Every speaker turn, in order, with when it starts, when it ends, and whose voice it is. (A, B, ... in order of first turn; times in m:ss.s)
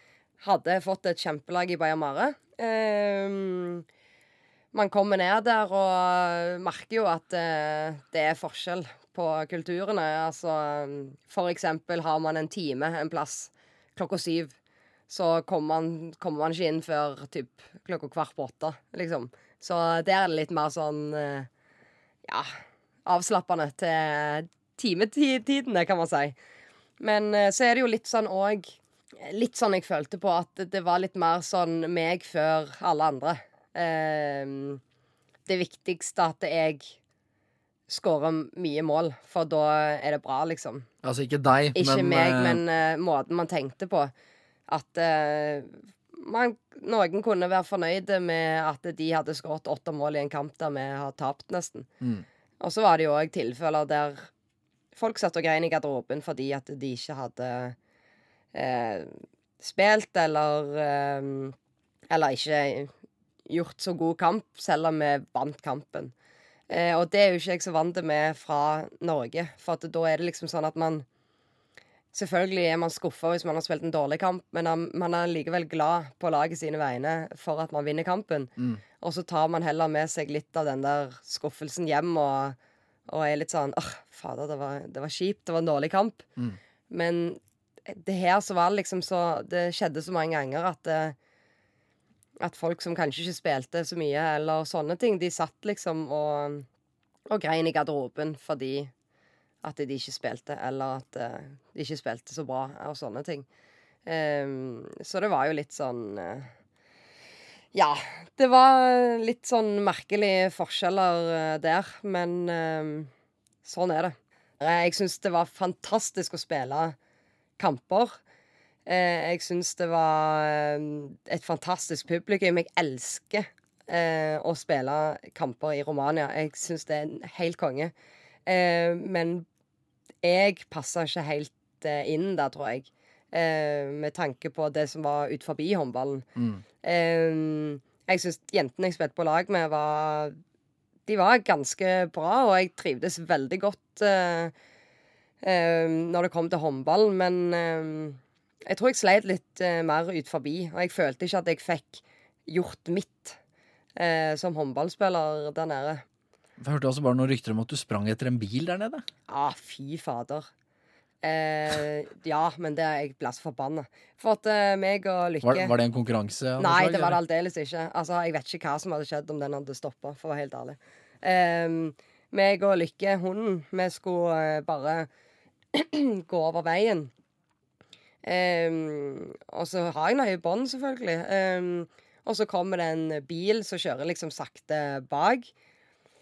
0:00.4-0:03.8 A
0:04.7-0:14.6 A
0:15.1-0:21.5 A
0:22.3-0:22.5 A
0:23.0-0:26.4 A
0:27.0-0:34.8 A
0:35.5-0:37.0 A
0:37.9-0:40.9 A
0:41.0-0:42.6 B
0:41.7-0:44.1 A
0:44.7-0:51.9 A
0:52.6-0:54.3 A
0:55.0-0:57.8 A
0:58.5-1:01.6 A
1:02.1-1:02.9 A
1:03.5-1:06.1 A
1:06.7-1:11.0 A
1:12.1-1:22.6 A
1:18.6-1:18.8 B
1:23.1-1:26.3 A
1:26.9-1:31.2 A
1:32.4-1:36.7 A
1:37.3-1:38.9 A
1:39.6-1:43.5 A
1:44.0-1:46.5 A
1:47.7-1:53.1 A
1:53.6-1:57.0 A
1:57.6-1:58.2 A
1:58.9-2:07.9 A
2:08.4-2:09.4 A
2:10.2-2:16.3 A
2:16.4-2:16.6 B
2:16.8-2:20.4 A
2:21.1-2:24.5 A
2:25.4-2:33.4 A
2:34.0-2:36.0 A
2:36.6-2:39.0 B
2:39.3-2:40.5 A
2:41.2-2:45.7 A
2:45.4-2:47.2 B
2:46.6-2:55.1 A
2:55.7-2:57.1 A
2:58.2-3:05.5 A